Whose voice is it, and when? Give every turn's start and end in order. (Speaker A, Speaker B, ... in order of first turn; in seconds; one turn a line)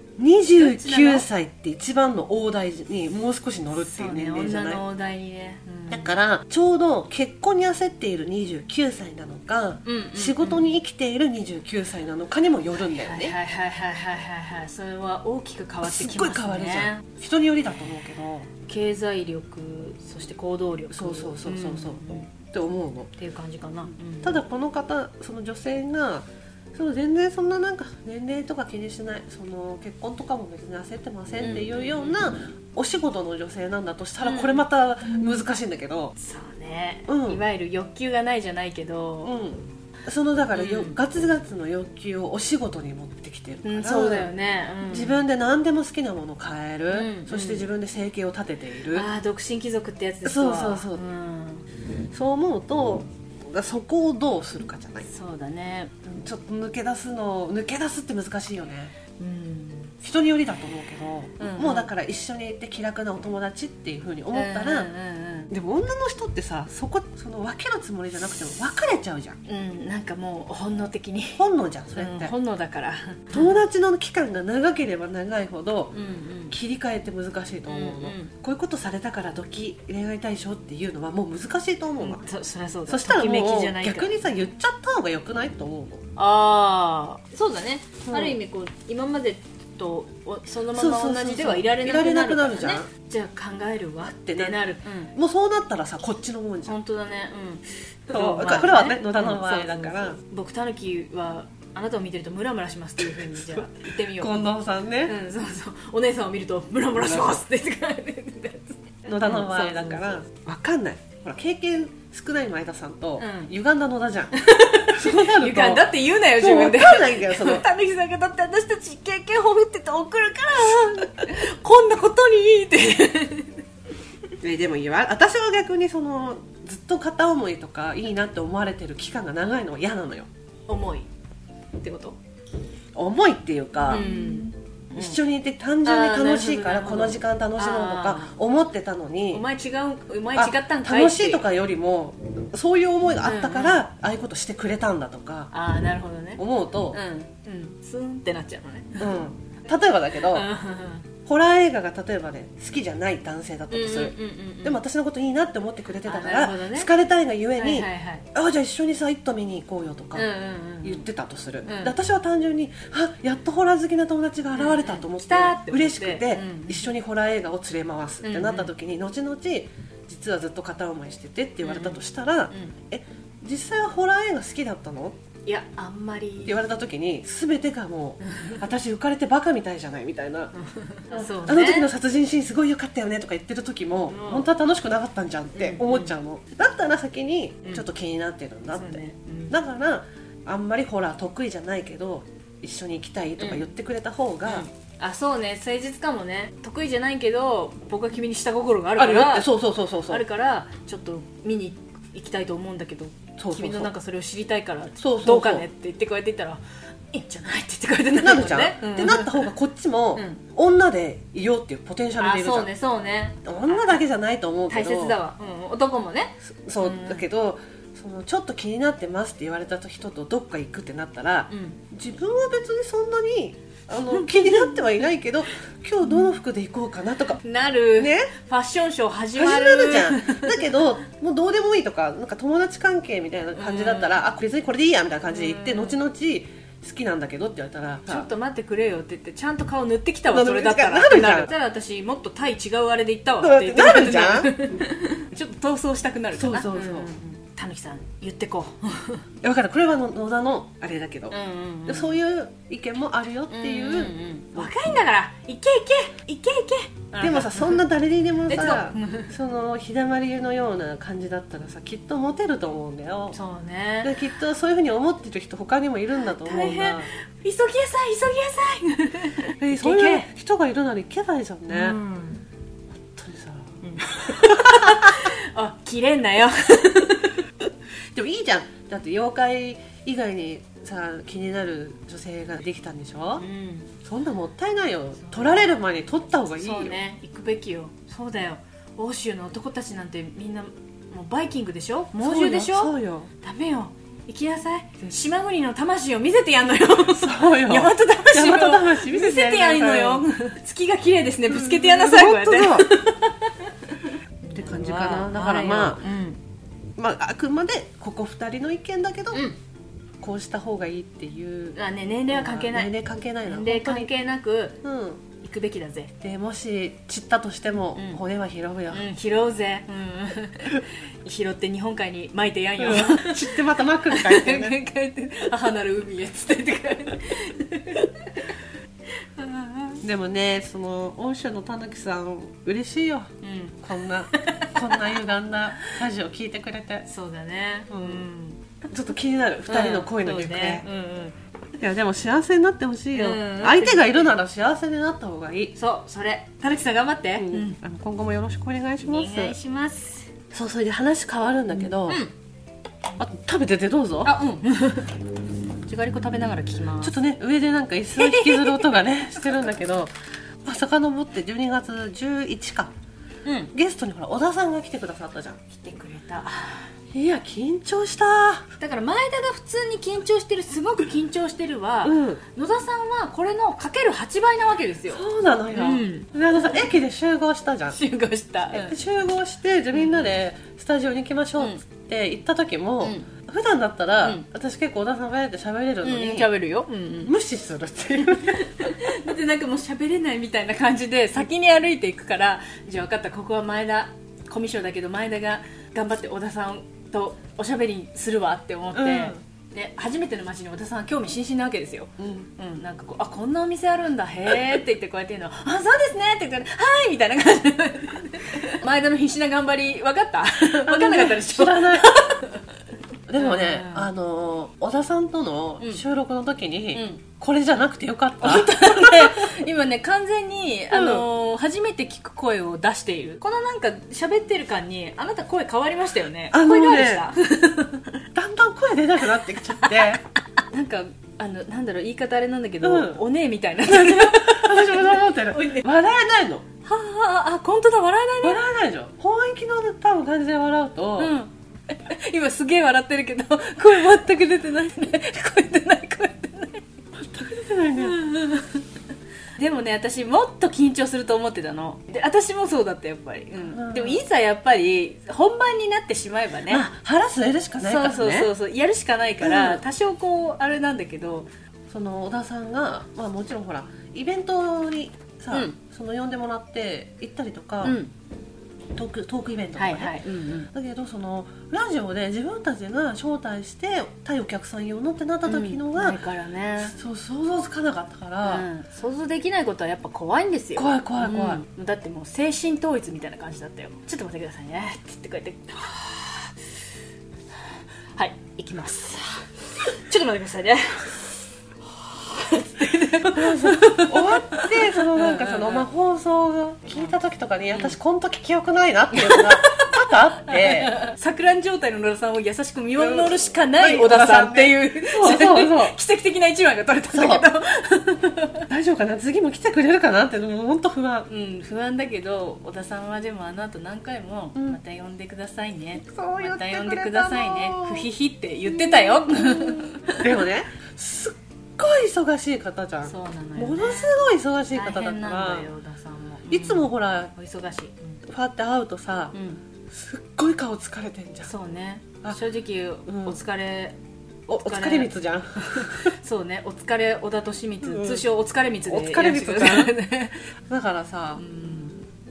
Speaker A: 0.2-4.8
Speaker B: 0.5-1.2
Speaker B: 3.8-6.1
Speaker A: 5.9-13.3
Speaker B: 9.8-10.7
Speaker B: 12.9-17.0
Speaker A: 15.8-18.5
Speaker B: 18.7-22.3
Speaker A: 20.9-23.1
Speaker B: 23.2-24.4
Speaker A: 24.2-36.1
Speaker B: 31.4-32.2
Speaker B: 34.2-34.6
Speaker B: 36.2-39.3
Speaker A: 37.1-37.4
Speaker A: 39.2-44.3
Speaker B: 40.5-41.0
Speaker B: 43.6-45.2
Speaker A: 44.9-49.1
Speaker B: 46.9-47.7
Speaker B: 48.9-51.6
Speaker A: 50.2-51.0
Speaker A: 52.1-55.1
Speaker B: 55.0-55.9
Speaker A: 56.0-58.9
Speaker B: 59.2-59.9
Speaker A: 60.0-64.9
Speaker B: 61.4-61.9
Speaker B: 64.3-65.5
Speaker A: 65.5-69.4
Speaker B: 69.5-71.4
Speaker A: 71.3-72.3
Speaker B: 72.0-73.5
Speaker A: 73.3-75.9
Speaker B: 75.9-76.5
Speaker A: 76.5-82.2
Speaker B: 77.7-78.3
Speaker B: 82.0-84.1
Speaker A: 82.9-86.0
Speaker B: 86.2-95.1
Speaker A: 88.0-88.4
Speaker A: 90.7-92.9
Speaker A: 94.0-94.6
Speaker A: 95.1-96.8
Speaker B: 96.7-104.5
Speaker A: 98.1-100.2
Speaker A: 103.0-103.6
Speaker A: 104.2-105.1
Speaker B: 105.0-110.2
Speaker A: 107.0-107.4
Speaker A: 109.0-117.6
Speaker B: 113.2-113.5
Speaker B: 114.3-123.6
Speaker A: 120.6-121.3
Speaker A: 124.4-130.3
Speaker B: 130.7-131.1
Speaker B: 131.8-132.2
Speaker A: 132.9-134.1
Speaker B: 133.9-135.2
Speaker A: 134.9-139.4
Speaker B: 135.8-138.3
Speaker B: 139.3-141.5
Speaker A: 140.3-145.5
Speaker B: 143.2-143.8
Speaker B: 145.5-149.1
Speaker A: 146.4-147.0
Speaker A: 149.0-150.5
Speaker B: 150.3-151.1
Speaker A: 151.2-160.3
Speaker B: 153.7-154.8
Speaker B: 156.0-156.9
Speaker B: 157.6-158.2
Speaker B: 160.1-161.1
Speaker A: 160.8-175.2
Speaker B: 161.6-161.9
Speaker B: 164.5-166.9
Speaker B: 168.2-168.7
Speaker B: 171.6-172.7
Speaker B: 175.4-176.6
Speaker A: 176.4-180.5
Speaker B: 178.2-178.6
Speaker B: 180.6-181.9
Speaker A: 181.1-194.7
Speaker B: 184.1-184.5
Speaker B: 185.6-186.1
Speaker B: 188.7-189.5
Speaker B: 193.4-193.7
Speaker B: 194.4-199.5
Speaker A: 198.9-200.2
Speaker B: 200.1-206.6
Speaker A: 203.4-203.9
Speaker A: 205.0-205.7
Speaker B: 207.1-209.5
Speaker A: 208.2-212.7
Speaker B: 210.1-210.4
Speaker B: 212.2-214.0
Speaker A: 213.4-215.2
Speaker B: 214.7-217.2
Speaker A: 216.4-227.4
Speaker B: 221.5-221.8
Speaker B: 224.1-224.7
Speaker B: 227.4-230.8
Speaker A: 227.9-228.3
Speaker A: 229.3-238.3
Speaker B: 233.5-234.2
Speaker B: 235.3-236.0
Speaker B: 238.1-249.2
Speaker A: 240.3-241.5
Speaker A: 243.4-244.7
Speaker A: 246.3-247.1
Speaker A: 249.4-254.7
Speaker B: 251.3-252.2
Speaker B: 253.5-257.8
Speaker A: 257.2-263.4
Speaker B: 258.5-259.3
Speaker B: 263.3-264.2
Speaker A: 264.0-267.1
Speaker B: 266.4-270.3
Speaker A: 269.6-272.0
Speaker B: 271.7-272.4
Speaker A: 272.9-275.3
Speaker B: 273.8-277.4
Speaker A: 278.1-283.4
Speaker B: 283.4-283.9
Speaker A: 284.0-287.0
Speaker B: 285.2-285.7
Speaker B: 286.6-306.4
Speaker A: 292.2-293.3
Speaker A: 297.0-300.3
Speaker A: 301.5-302.9
Speaker A: 304.5-306.1
Speaker A: 307.0-309.5
Speaker A: 310.2-311.8
Speaker B: 311.8-312.9
Speaker A: 312.3-314.1
Speaker B: 313.4-314.8
Speaker A: 314.8-315.2
Speaker B: 315.4-316.1
Speaker A: 316.2-319.1
Speaker B: 317.9-318.2
Speaker B: 318.9-323.5
Speaker A: 322.8-324.8
Speaker B: 324.1-328.5
Speaker B: 329.2-330.0
Speaker A: 330.0-333.3
Speaker B: 333.4-335.2
Speaker A: 333.8-337.1
Speaker B: 337.1-338.6
Speaker A: 337.9-338.2
Speaker A: 338.9-340.9
Speaker B: 339.7-341.3
Speaker A: 341.8-345.7
Speaker B: 343.1-344.3
Speaker B: 345.8-347.8
Speaker A: 347.4-349.6
Speaker B: 349.0-350.3
Speaker A: 350.5-352.2
Speaker B: 352.1-352.3
Speaker A: 353.2-354.4
Speaker B: 354.2-355.2
Speaker B: 355.9-357.1
Speaker A: 357.0-360.1
Speaker B: 358.1-359.0
Speaker A: 360.6-362.9
Speaker B: 363.4-363.7
Speaker A: 363.7-365.6
Speaker B: 365.7-366.9
Speaker A: 367.1-368.7
Speaker B: 368.8-376.7
Speaker A: 372.0-372.4
Speaker A: 375.1-378.0
Speaker B: 377.9-378.9
Speaker A: 378.7-386.5
Speaker B: 379.9-380.3
Speaker B: 383.0-383.3
Speaker B: 386.0-387.3
Speaker A: 387.2-389.0
Speaker B: 388.2-412.6
Speaker A: 398.9-399.4
Speaker A: 402.2-402.5
Speaker A: 410.8-412.1
Speaker A: 413.3-419.5
Speaker B: 413.4-414.1
Speaker B: 416.9-417.2
Speaker B: 418.4-428.1
Speaker A: 420.9-421.2
Speaker A: 426.5-427.3
Speaker A: 428.3-430.2
Speaker B: 430.6-435.8
Speaker A: 432.8-433.2
Speaker A: 433.9-436.6
Speaker B: 436.8-438.6
Speaker A: 438.4-441.3
Speaker B: 441.2-446.8
Speaker A: 447.1-448.2
Speaker B: 448.0-448.8
Speaker B: 449.6-456.9
Speaker A: 453.7-454.2
Speaker A: 456.7-458.5
Speaker B: 457.8-461.5
Speaker A: 459.4-459.8
Speaker A: 461.9-468.0
Speaker B: 467.8-468.1
Speaker A: 468.9-476.2
Speaker B: 469.8-470.7
Speaker B: 475.4-476.9
Speaker A: 476.8-478.7
Speaker B: 478.4-486.6
Speaker A: 480.8-481.6
Speaker B: 488.2-491.3
Speaker B: 491.9-495.9
Speaker A: 493.1-501.0
Speaker B: 499.1-508.6
Speaker A: 502.9-506.0
Speaker A: 507.1-507.5
Speaker A: 508.7-511.3
Speaker B: 511.3-520.3
Speaker A: 516.1-518.1
Speaker A: 518.6-525.7
Speaker B: 523.0-524.1
Speaker B: 524.7-528.2
Speaker A: 526.5-527.3
Speaker A: 528.3-529.3
Speaker B: 529.3-529.6
Speaker A: 529.9-531.5
Speaker B: 531.4-534.0
Speaker A: 533.1-533.4
Speaker A: 534.5-536.1
Speaker B: 534.5-540.4
Speaker A: 537.8-538.2
Speaker A: 538.9-539.9
Speaker A: 540.7-541.4
Speaker B: 541.4-542.0